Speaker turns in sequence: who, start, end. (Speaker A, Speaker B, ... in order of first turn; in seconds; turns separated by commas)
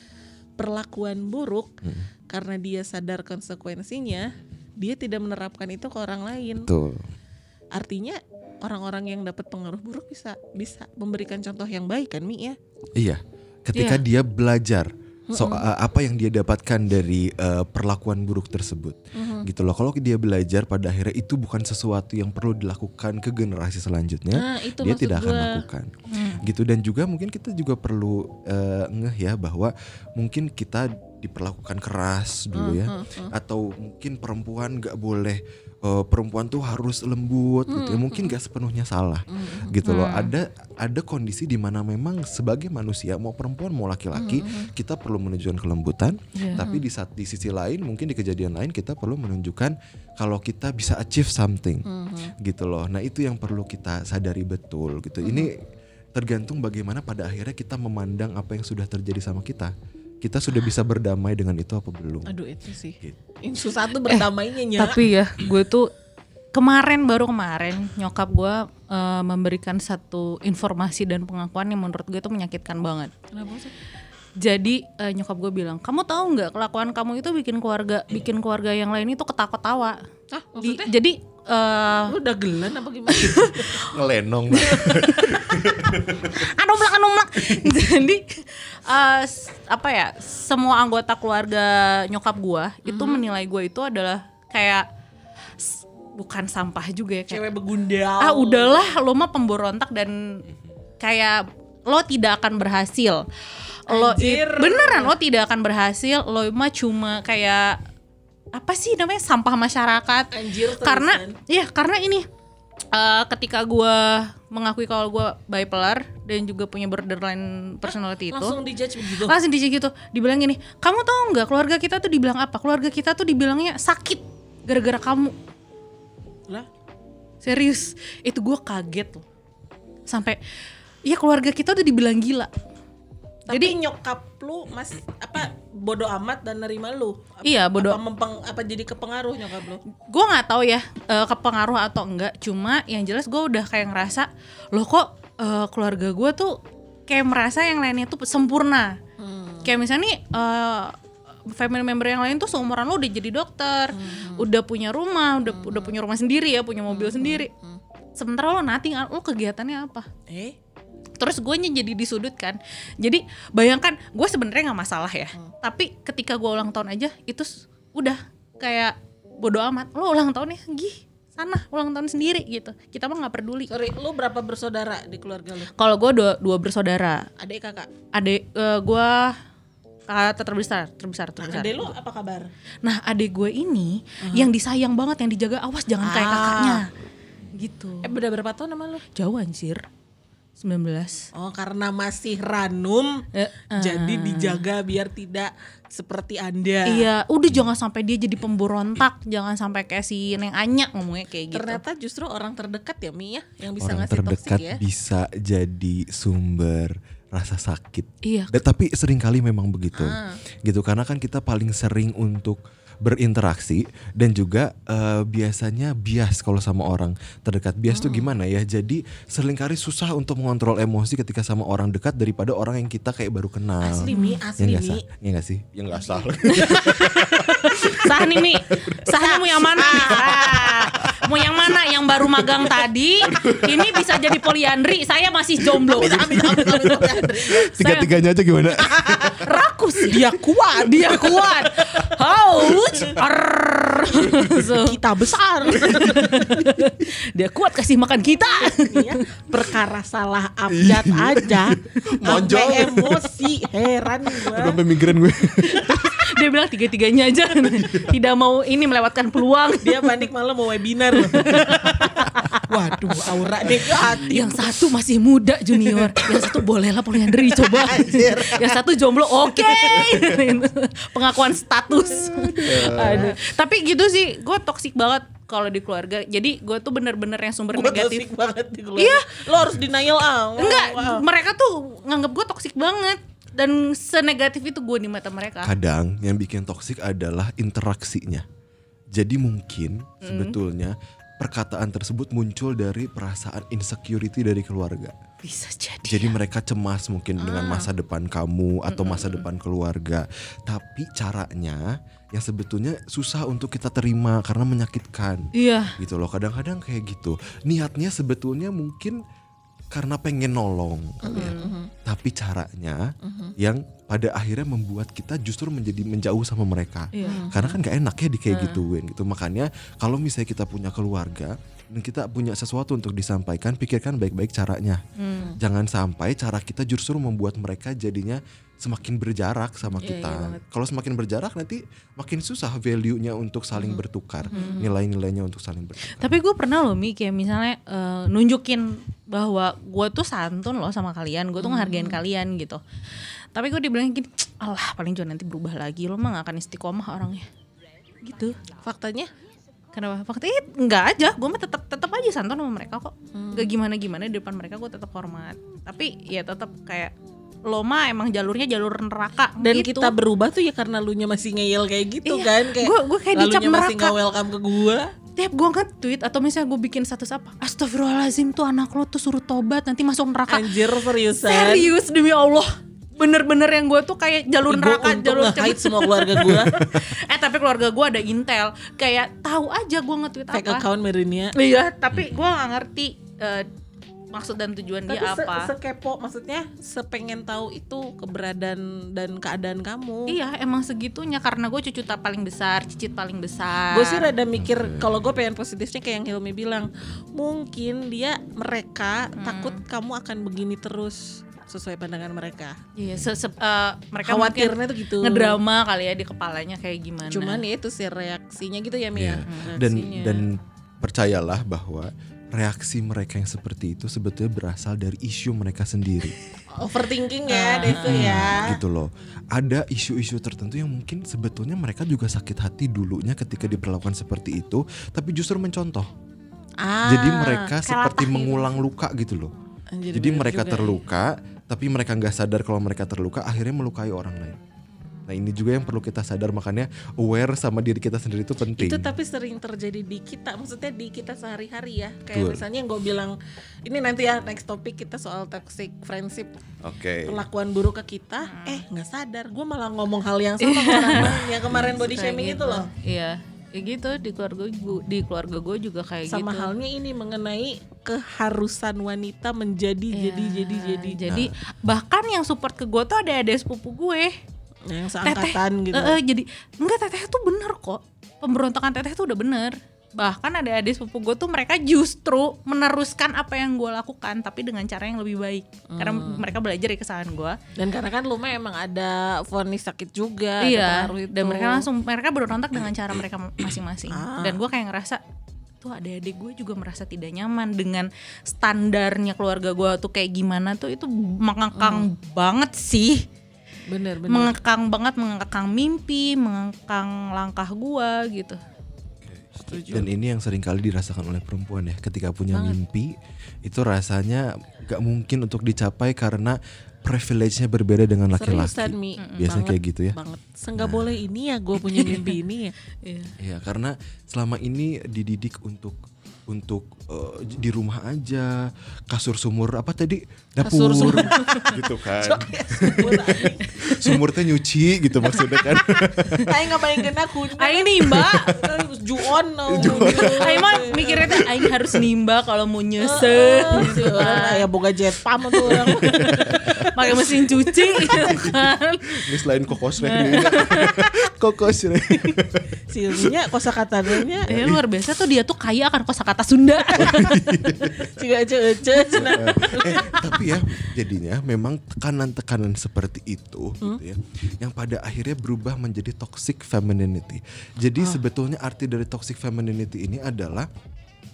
Speaker A: 0.6-1.7, Speaker A: 2.3-6.7, Speaker B: 6.6-7.1, Speaker A: 7.7-12.6, Speaker B: 12.9-51.9, Speaker A: 15.3-15.6, Speaker A: 19.1-19.5, Speaker A: 24.3-25.6, Speaker C: 26.1-26.4, Speaker A: 32.5-33.3, Speaker A: 37.7-38.3, Speaker A: 39.3-39.7, Speaker C: 39.8-40.3, Speaker A: 44.1-44.7, Speaker C: 46.4-46.6, Speaker A: 46.5-46.8, Speaker A: 51.9-52.3, Speaker B: 52.4-62.3, Speaker A: 55.2-55.5, Speaker A: 62.3-65.0, Speaker C: 64.0-65.9, Speaker C: 66.5-73.1, Speaker A: 73.3-73.7, Speaker C: 74.4-80.0, Speaker A: 80.3-80.9, Speaker C: 80.6-82.1, Speaker A: 82.1-83.9, Speaker C: 83.1-83.9, Speaker B: 83.8-86.5, Speaker A: 84.5-85.6, Speaker C: 84.8-85.4, Speaker C: 86.3-94.8, Speaker A: 92.8-93.2, Speaker C: 95.6-97.4, Speaker A: 97.3-98.9, Speaker C: 98.2-100.5, Speaker C: 101.0-103.2, Speaker A: 103.9-105.1, Speaker C: 103.9-107.8, Speaker C: 108.5-112.2, Speaker A: 110.3-111.4, Speaker C: 112.9-118.6, Speaker A: 117.8-119.3, Speaker C: 119.1-125.3, Speaker C: 127.4-129.2, Speaker C: 130.1-130.4, Speaker C: 131.1-132.5, Speaker A: 133.5-139.8, Speaker C: 133.5-133.8, Speaker C: 137.4-138.0, Speaker C: 140.1-149.0, Speaker A: 149.2-149.7, Speaker C: 149.6-150.9, Speaker C: 151.5-157.5, Speaker A: 153.9-154.4, Speaker A: 155.4-155.9, Speaker A: 156.9-157.8, Speaker C: 158.2-160.1, Speaker A: 160.3-160.6, Speaker C: 161.2-173.7, Speaker A: 173.7-175.7, Speaker C: 175.8-177.3, Speaker A: 177.4-177.9, Speaker C: 178.1-179.4, Speaker C: 180.1-181.9, Speaker A: 181.4-182.5, Speaker C: 182.8-186.9, Speaker A: 184.2-184.5, Speaker A: 186.0-186.8, Speaker C: 187.5-188.1, Speaker A: 188.0-189.1, Speaker C: 189.1-189.8, Speaker C: 190.6-191.2, Speaker A: 191.3-197.1, Speaker C: 193.3-194.6, Speaker C: 196.8-201.8, Speaker A: 201.5-204.8, Speaker B: 203.8-229.0, Speaker C: 208.2-208.5, Speaker A: 209.9-210.4, Speaker A: 217.9-218.3, Speaker A: 223.8-225.0, Speaker C: 224.1-224.4, Speaker A: 226.5-228.2, Speaker C: 226.6-226.9, Speaker C: 227.7-238.1, Speaker A: 229.1-231.2, Speaker B: 229.8-231.2, Speaker B: 232.4-232.7, Speaker B: 233.2-234.4, Speaker A: 235.8-237.7, Speaker B: 235.9-240.2, Speaker A: 238.8-239.4, Speaker C: 239.3-245.0, Speaker A: 240.1-243.2, Speaker A: 244.1-246.8, Speaker C: 245.7-249.2, Speaker A: 248.3-254.9, Speaker B: 250.7-253.4, Speaker B: 254.3-256.1, Speaker A: 255.5-256.1, Speaker C: 255.7-260.2, Speaker B: 257.7-258.1, Speaker A: 259.8-264.6, Speaker C: 261.2-262.6, Speaker B: 263.6-264.3, Speaker C: 264.3-278.2, Speaker B: 266.2-266.6, Speaker A: 267.4-268.8, Speaker A: 269.4-270.3, Speaker B: 269.9-270.4, Speaker B: 272.1-273.3, Speaker A: 272.6-273.4, Speaker A: 277.7-281.2, Speaker C: 279.0-279.4, Speaker C: 280.6-285.7, Speaker B: 285.6-288.4, Speaker B: 289.1-295.1, Speaker C: 290.2-290.6, Speaker C: 295.4-296.3, Speaker B: 296.1-309.2, Speaker A: 297.4-297.9, Speaker C: 298.9-299.4, Speaker C: 305.5-306.0, Speaker B: 309.9-325.0, Speaker A: 311.2-311.9, Speaker C: 311.3-311.7, Speaker A: 313.2-313.5, Speaker C: 317.1-317.6, Speaker A: 317.2-317.7, Speaker C: 318.5-318.8, Speaker C: 325.2-325.5, Speaker B: 325.6-336.4, Speaker A: 330.0-330.6, Speaker A: 333.9-334.9, Speaker C: 334.5-334.9, Speaker C: 336.1-347.5, Speaker A: 341.6-342.2, Speaker C: 348.2-348.6, Speaker A: 348.8-349.3, Speaker C: 349.9-357.1, Speaker A: 353.3-353.7, Speaker C: 357.6-360.1, Speaker A: 359.6-365.1, Speaker C: 362.2-364.1, Speaker C: 365.4-380.9, Speaker A: 370.5-371.9, Speaker A: 374.7-376.8, Speaker B: 376.5-377.1, Speaker A: 380.5-381.5, Speaker C: 381.5-383.7, Speaker B: 382.1-382.4, Speaker C: 384.3-385.7, Speaker A: 385.1-390.4, Speaker C: 390.3-394.3, Speaker A: 393.9-402.8, Speaker B: 394.6-395.1, Speaker C: 399.4-399.8, Speaker C: 402.9-407.6, Speaker B: 403.1-403.3, Speaker A: 404.2-405.6, Speaker A: 407.3-410.4, Speaker B: 409.1-416.4, Speaker C: 409.5-409.8, Speaker A: 416.7-418.8, Speaker C: 417.5-418.4, Speaker B: 417.9-426.1, Speaker A: 426.8-427.8, Speaker B: 427.1-429.5, Speaker C: 427.9-428.7, Speaker A: 429.9-431.0, Speaker B: 430.1-434.6, Speaker B: 435.2-439.1, Speaker A: 438.8-446.5, Speaker B: 442.3-442.6, Speaker B: 446.8-447.4, Speaker A: 447.2-452.9, Speaker C: 448.5-448.8, Speaker C: 450.6-456.7, Speaker B: 451.1-452.0, Speaker A: 456.3-461.2, Speaker C: 460.1-464.3, Speaker B: 461.3-461.5, Speaker A: 464.9-466.2, Speaker C: 465.2-477.6, Speaker A: 475.9-476.5, Speaker A: 477.8-481.9, Speaker C: 480.6-485.2, Speaker A: 484.1-484.6, Speaker C: 485.8-493.2, Speaker A: 491.8-492.1, Speaker A: 493.9-494.5, Speaker C: 494.3-498.6, Speaker B: 499.2-510.2, Speaker A: 499.6-500.1, Speaker A: 502.5-502.8, Speaker A: 508.4-512.8, Speaker C: 509.2-509.5, Speaker B: 510.8-511.1, Speaker C: 511.9-512.3, Speaker C: 513.0-513.3, Speaker B: 513.4-526.6, Speaker A: 520.6-523.7, Speaker C: 520.8-521.4, Speaker C: 523.7-524.2, Speaker A: 525.3-531.5, Speaker C: 527.6-528.5, Speaker B: 528.1-528.8, Speaker B: 529.7-532.0, Speaker C: 529.8-534.6, Speaker A: 533.0-538.4, Speaker B: 533.7-534.0, Speaker C: 535.5-539.3, Speaker B: 535.7-536.9, Speaker B: 538.1-543.4, Speaker C: 540.0-541.0, Speaker A: 540.1-540.9, Speaker A: 542.9-544.5, Speaker B: 544.1-544.8, Speaker C: 544.5-547.4, Speaker A: 546.9-547.1, Speaker B: 547.0-548.2, Speaker A: 547.9-550.4, Speaker B: 549.2-560.7